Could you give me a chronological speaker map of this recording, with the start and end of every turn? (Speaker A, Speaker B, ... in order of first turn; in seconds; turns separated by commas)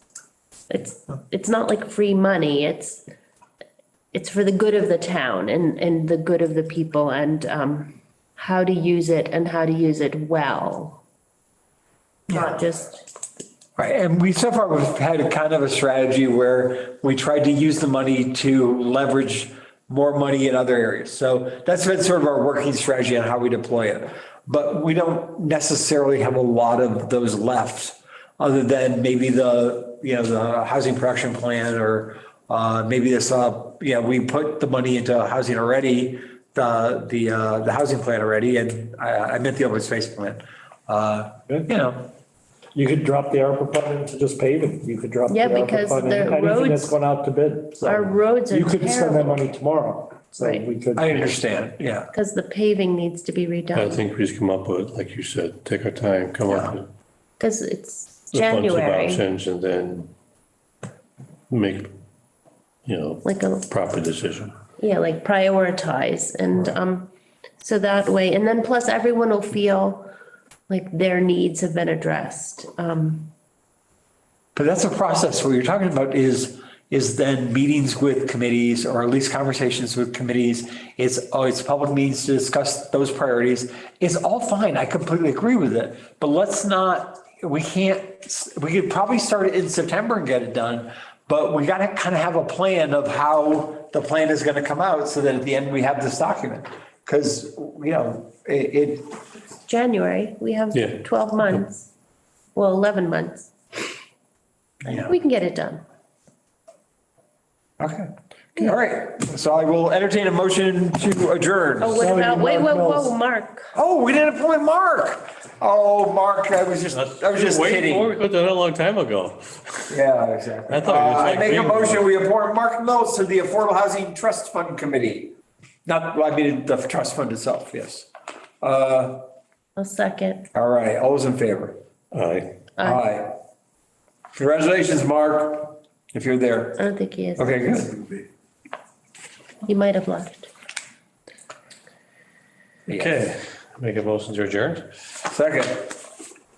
Speaker A: 0.7-3.0, Speaker A: 4.1-11.0, Speaker A: 12.3-13.1, Speaker B: 13.8-42.1, Speaker C: 42.7-51.3, Speaker A: 45.3-47.0, Speaker A: 47.8-49.5, Speaker A: 50.4-50.7, Speaker B: 51.0-52.1, Speaker A: 52.1-54.0, Speaker D: 53.7-56.9, Speaker B: 56.5-56.8, Speaker A: 57.4-59.2, Speaker D: 58.3-60.1, Speaker D: 61.5-61.9, Speaker D: 62.9-64.5, Speaker A: 63.2-63.7, Speaker A: 64.8-70.1, Speaker A: 70.7-73.3, Speaker B: 74.5-99.2, Speaker A: 99.6-101.9, Speaker D: 100.7-101.6, Speaker A: 102.5-103.5, Speaker A: 104.8-105.8, Speaker B: 104.8-105.1, Speaker B: 107.8-112.0, Speaker A: 111.8-113.7, Speaker C: 112.0-113.1, Speaker B: 113.7-118.1, Speaker D: 117.0-119.9, Speaker B: 119.9-125.3, Speaker D: 120.7-122.1, Speaker B: 125.8-128.1, Speaker B: 128.6-129.2, Speaker A: 129.8-130.5, Speaker B: 130.5-131.8, Speaker D: 132.1-132.6, Speaker B: 132.8-133.4, Speaker B: 134.3-136.8, Speaker A: 136.8-137.5, Speaker B: 137.4-138.2, Speaker A: 139.6-140.5, Speaker B: 142.9-143.2, Speaker D: 142.9-144.9, Speaker B: 145.2-146.0